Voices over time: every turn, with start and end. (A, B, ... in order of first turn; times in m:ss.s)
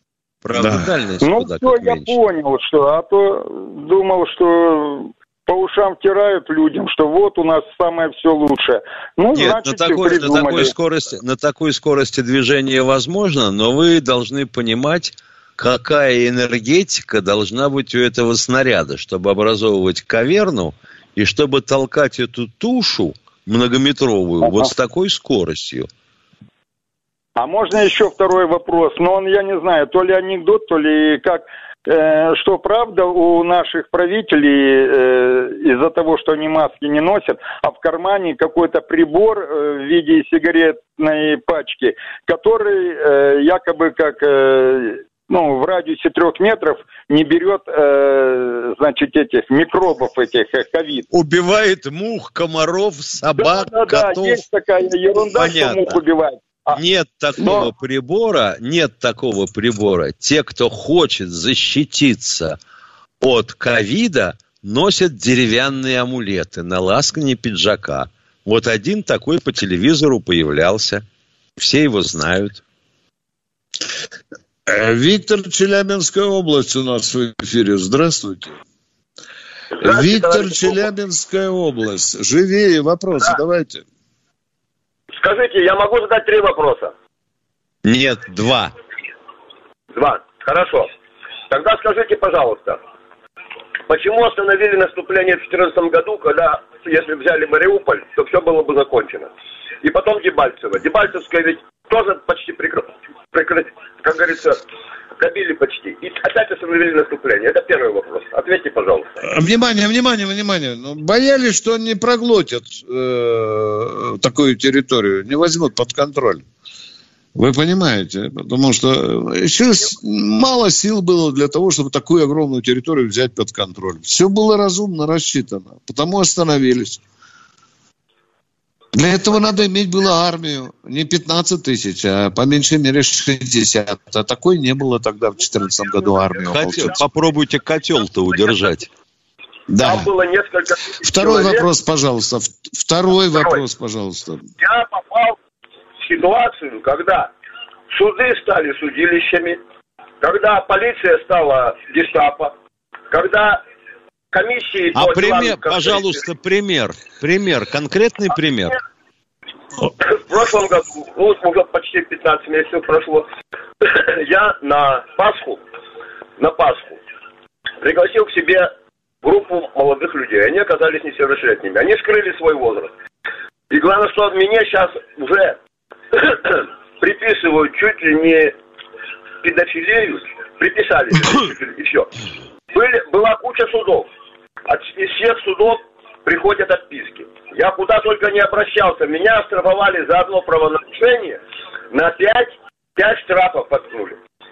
0:00.4-0:02.2 A
0:00.5-0:00.9 B
0:01.2-0:10.7 C
0:09.3-0:25.9 A
0:24.4-0:24.7 C
0:27.4-0:51.1 C
0:51.1-0:54.4 A
0:53.4-0:56.8 C
0:55.3-0:56.0 A
0:56.7-1:02.6 A
0:57.4-0:57.7 C
1:03.2-1:11.0 A
1:11.6-1:12.6 A
1:14.7-1:18.6 B
1:19.8-1:20.9 D
1:19.8-1:23.8 B
1:25.2-1:26.9 D
1:27.8-1:28.7 A
1:29.9-1:30.9 D
1:31.5-1:32.8 D
1:33.9-1:39.3 D
1:39.8-1:44.6 D
1:45.2-1:49.2 D
1:49.2-1:56.4 B
1:57.4-2:07.0 B
2:08.9-2:17.0 B
2:16.5-2:18.9 A
2:19.7-2:20.1 B
2:19.8-2:21.7 D
2:21.0-2:24.5 B
2:23.3-2:23.6 D
2:24.6-2:25.4 D
2:26.0-2:27.3 D
2:27.9-2:29.6 D
2:30.2-2:32.5 D
2:33.1-2:33.6 D
2:34.3-2:36.2 D
2:34.9-2:38.8 A
2:40.0-2:43.3 D
2:43.8-2:45.6 D
2:46.4-2:47.0 D
2:47.8-2:48.7 D
2:49.2-2:52.9 D
2:53.7-2:55.6 D
2:56.1-2:58.5 D
2:59.4-3:02.1 D
3:02.7-3:04.1 D
3:04.7-3:11.4 D
3:11.9-3:14.2 D